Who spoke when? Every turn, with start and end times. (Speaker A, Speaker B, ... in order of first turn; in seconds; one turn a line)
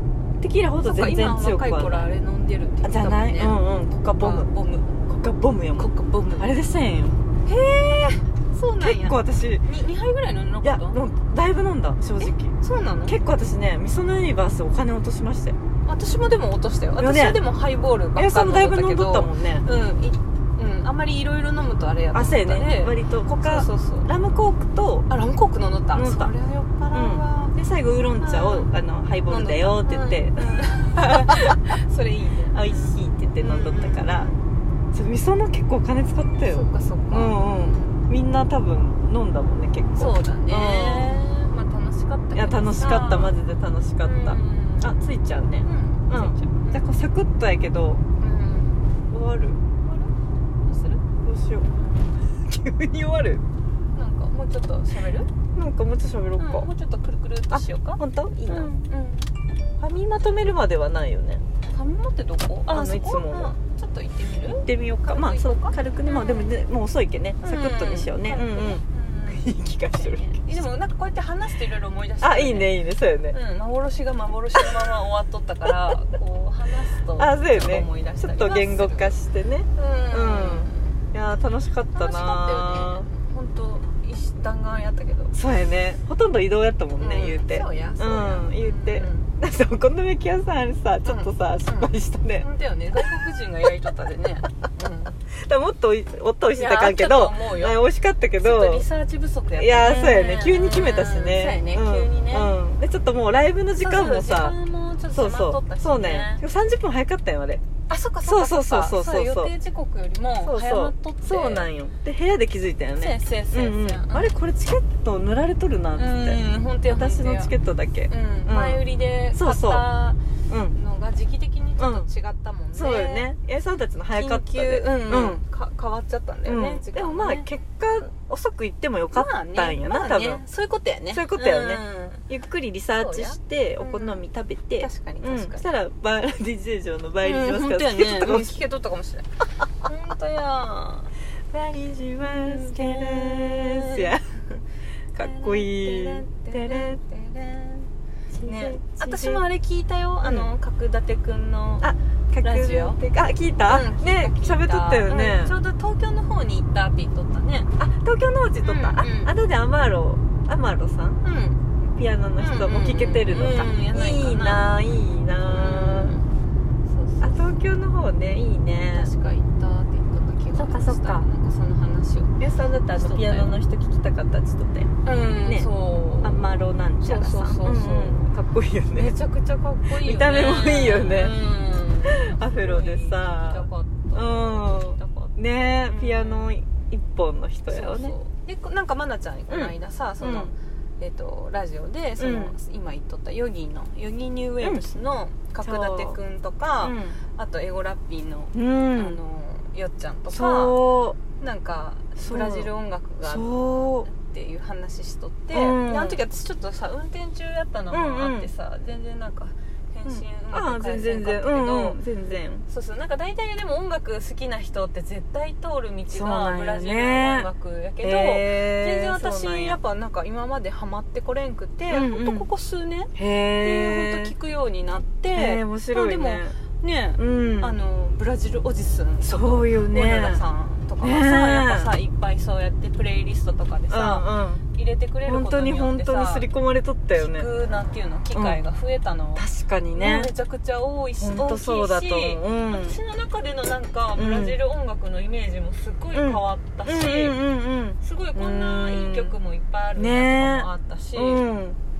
Speaker A: 0.4-2.1
Speaker B: 0.8-5.0
Speaker A: 2.8-4.5
Speaker A: 5.0-7.2
Speaker B: 5.7-6.5
Speaker B: 7.4-11.0
Speaker A: 8.8-9.6
Speaker A: 10.6-12.5
Speaker B: 12.2-13.1
Speaker A: 13.1-15.6
Speaker B: 15.8-24.1
Speaker A: 17.0-17.4
Speaker A: 18.1-19.6
Speaker A: 22.1-25.1
Speaker B: 25.1-27.5
Speaker A: 25.9-26.3
Speaker A: 26.9-30.6
Speaker B: 28.2-28.7
Speaker B: 29.3-34.4
Speaker A: 31.1-31.7
Speaker A: 32.5-34.3
Speaker A: 34.9-41.2
Speaker B: 36.4-38.0
Speaker B: 40.0-43.3
Speaker A: 42.3-48.0
Speaker B: 44.0-45.1
Speaker B: 45.6-46.8
Speaker B: 48.2-48.9
Speaker A: 49.1-49.6
Speaker B: 49.8-50.1
Speaker B: 50.6-51.0
Speaker A: 51.2-53.4
Speaker B: 53.9-55.3
Speaker A: 55.5-56.7
Speaker B: 56.4-59.3
Speaker A: 57.5-58.7
Speaker A: 59.8-61.4
Speaker B: 61.7-66.5
Speaker A: 62.7-63.5
Speaker A: 64.5-70.6
Speaker B: 67.4-79.2
Speaker A: 72.2-73.3
Speaker A: 77.2-83.1
Speaker B: 79.7-81.0
Speaker B: 81.9-85.3
Speaker A: 85.3-92.5
Speaker B: 87.0-89.3
Speaker B: 91.0-95.1
Speaker A: 95.4-98.8
Speaker B: 96.5-97.8
Speaker B: 98.4-102.6
Speaker A: 99.6-104.5
Speaker B: 103.8-106.4
Speaker A: 105.1-107.6
Speaker B: 107.9-111.7
Speaker A: 108.2-109.5
Speaker A: 110.4-119.9
Speaker B: 113.0-114.3
Speaker B: 115.9-117.5
Speaker B: 118.1-120.2
Speaker A: 120.5-120.8
Speaker B: 120.7-123.3
Speaker A: 121.8-122.1
Speaker A: 122.7-125.4
Speaker B: 124.1-127.5
Speaker A: 126.5-130.4
Speaker B: 129.1-132.2
Speaker A: 131.1-138.6
Speaker B: 133.0-134.2
Speaker B: 134.8-135.6
Speaker B: 137.2-141.1
Speaker A: 141.5-144.6
Speaker B: 142.2-144.1
Speaker A: 145.1-147.0
Speaker B: 145.2-147.9
Speaker A: 148.3-149.4
Speaker B: 148.4-151.9
Speaker A: 151.8-155.6
Speaker B: 152.4-153.0
Speaker B: 153.7-157.7
Speaker A: 157.8-161.2
Speaker B: 158.6-159.3
Speaker B: 161.2-161.6
Speaker A: 161.8-166.2
Speaker B: 162.4-164.6
Speaker B: 165.4-166.3
Speaker B: 166.8-167.5
Speaker A: 167.2-169.1
Speaker B: 168.9-172.4
Speaker A: 170.5-171.3
Speaker A: 172.4-174.9
Speaker B: 172.9-173.5
Speaker B: 175.0-178.3
Speaker A: 175.4-175.7
Speaker A: 176.2-179.1
Speaker B: 178.9-186.5
Speaker A: 179.9-181.3
Speaker A: 182.1-188.1
Speaker B: 187.7-200.8
Speaker A: 189.5-190.5
Speaker A: 192.2-192.6
Speaker A: 194.6-194.9
Speaker A: 195.6-196.2
Speaker A: 196.8-197.2
Speaker A: 198.5-199.2
Speaker A: 200.3-201.2
Speaker B: 201.3-212.0
Speaker A: 202.2-202.7
Speaker A: 203.2-204.1
Speaker A: 205.5-206.2
Speaker A: 207.9-208.5
Speaker A: 210.1-212.7
Speaker B: 212.7-236.5
Speaker A: 216.1-217.5
Speaker A: 218.0-219.8
Speaker A: 221.9-222.5
Speaker A: 223.2-224.3
Speaker A: 225.3-226.6
Speaker A: 227.2-227.8
Speaker A: 229.2-230.4
Speaker A: 231.0-231.9
Speaker A: 233.9-234.6
Speaker A: 235.2-237.5
Speaker B: 237.1-247.4
Speaker A: 238.3-238.6
Speaker A: 239.3-240.3
Speaker A: 241.2-243.0
Speaker A: 244.1-244.6
Speaker A: 246.1-249.4
Speaker B: 248.0-251.4
Speaker A: 249.9-251.8